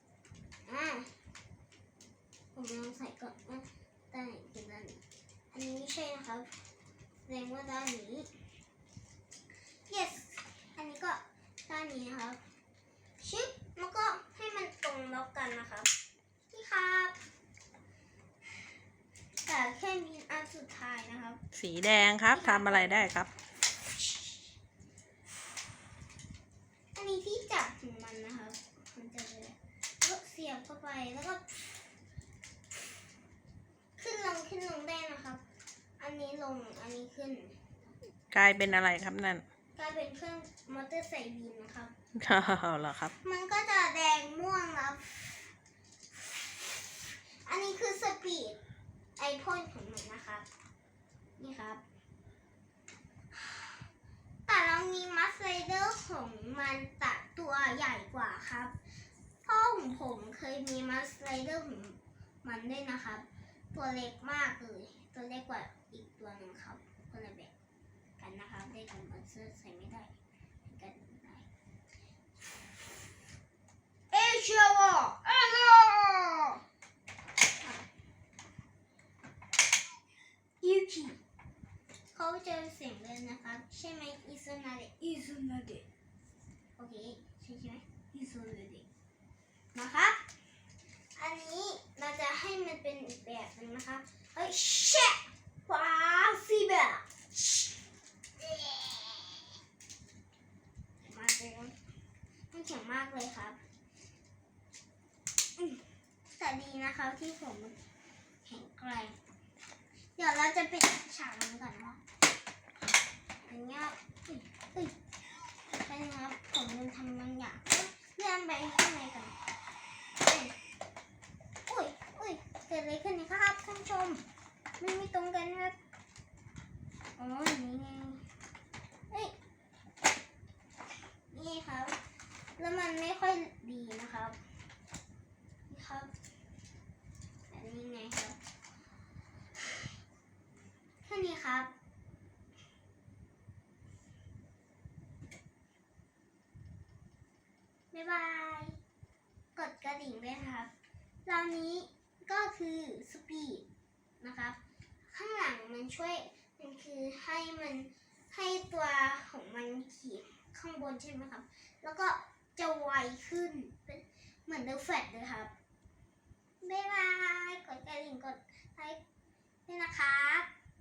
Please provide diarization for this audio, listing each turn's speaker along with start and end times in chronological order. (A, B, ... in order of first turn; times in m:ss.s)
0:00.6-0:01.1 A
0:02.5-0:05.0 A
0:05.5-0:06.5 A
0:07.3-0:08.3 A
0:09.9-0:12.4 A
0:13.2-0:15.9 A
0:16.5-0:17.2 A
0:19.4-0:21.4 A
0:21.5-0:23.3 B
0:22.3-0:23.1 A
0:23.8-0:24.4 A
0:26.9-0:31.8 A
0:34.0-0:35.4 A
0:36.0-0:37.9 A
0:38.3-0:39.4 B
0:39.8-0:41.9 A
0:42.2-0:43.1 B
0:43.2-0:45.5 A
0:47.4-0:48.6 A
0:49.2-0:50.4 A
0:51.4-0:51.8 A
0:53.3-0:53.8 A
0:54.4-0:58.8 A
0:59.4-1:07.5 A
1:08.2-1:10.1 A
1:10.6-1:11.5 A
1:14.1-1:16.6 A
1:20.6-1:21.2 A
1:22.1-1:25.8 A
1:26.8-1:28.8 A
1:29.7-1:30.2 A
1:31.2-1:37.7 A
1:38.4-1:39.4 A
1:41.0-1:41.7 A
1:42.5-1:43.6 A
1:45.6-1:45.8 A
1:46.4-1:47.8 A
1:48.4-1:49.2 A
1:50.2-1:52.0 A
1:53.5-1:55.0 A
1:55.8-1:59.4 A
2:00.2-2:00.5 A
2:01.6-2:04.2 A
2:04.8-2:05.8 A
2:07.2-2:08.2 A
2:11.3-2:11.9 A
2:12.6-2:14.4 A
2:15.7-2:16.1 A
2:17.5-2:18.4 A
2:21.0-2:21.7 A
2:27.9-2:28.7 A
2:29.6-2:30.7 A
2:31.2-2:33.6 A
2:34.2-2:34.6 A
2:35.1-2:45.5 A
2:46.6-2:49.0 A
2:49.7-2:50.5 A